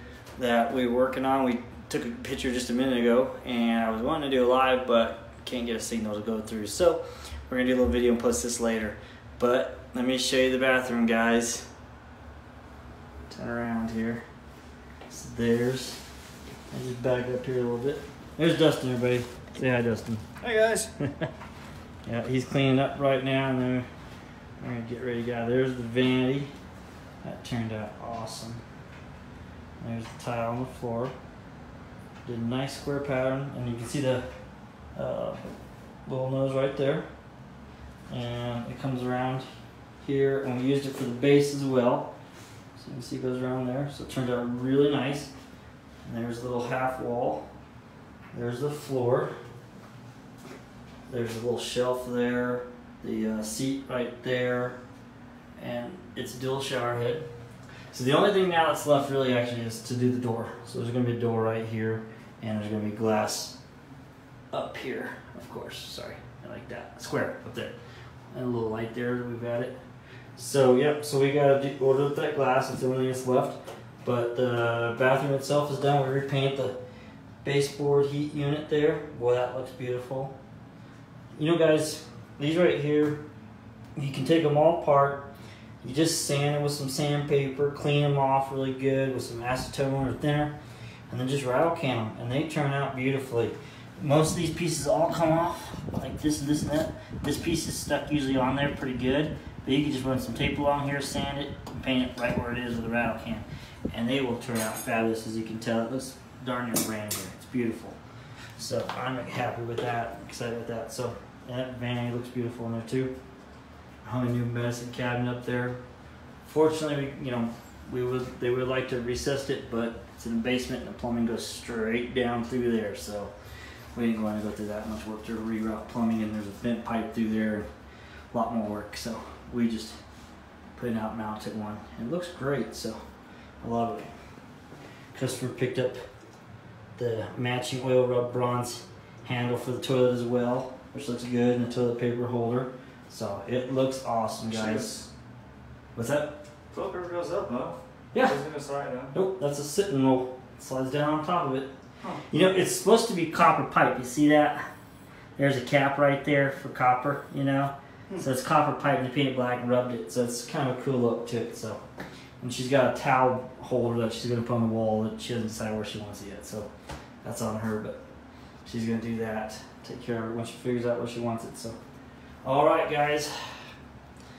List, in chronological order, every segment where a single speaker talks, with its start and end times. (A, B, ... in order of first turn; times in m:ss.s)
0:00.4-0:11.7 A
0:13.3-0:14.2 A
0:15.1-0:16.0 A
0:16.7-0:20.2 A
0:20.4-0:20.9 B
0:22.1-0:23.9 A
0:24.6-0:26.5 A
0:27.2-0:28.6 A
0:29.8-0:31.1 A
0:32.2-0:34.3 A
0:35.0-0:35.4 A
0:36.1-0:37.1 A
0:38.1-0:39.5 A
0:40.0-0:42.1 A
0:42.8-0:45.3 A
0:46.0-0:47.5 A
0:48.3-0:49.3 A
0:51.1-0:54.8 A
0:55.6-0:57.3 A
0:57.9-1:03.6 A
1:04.5-1:07.8 A
1:08.3-1:09.8 A
1:10.4-1:16.8 A
1:17.4-1:20.4 A
1:21.4-1:23.2 A
1:24.0-1:25.3 A
1:25.8-1:30.6 A
1:31.1-1:48.0 A
1:48.6-1:53.2 A
1:54.0-1:55.8 A
1:56.4-2:03.3 A
2:03.9-2:07.7 A
2:08.3-2:10.0 A
2:10.8-2:13.0 A
2:13.6-2:14.2 A
2:15.1-2:16.1 A
2:17.0-2:25.1 A
2:24.5-2:25.0 B
2:26.0-2:26.4 A
2:26.7-2:29.2 B
2:28.1-2:28.4 A
2:29.1-2:31.7 A
2:32.3-2:34.7 A
2:35.4-2:41.8 A
2:42.4-2:46.7 A
2:47.2-2:48.0 A
2:48.6-2:51.8 A
2:52.4-2:53.6 A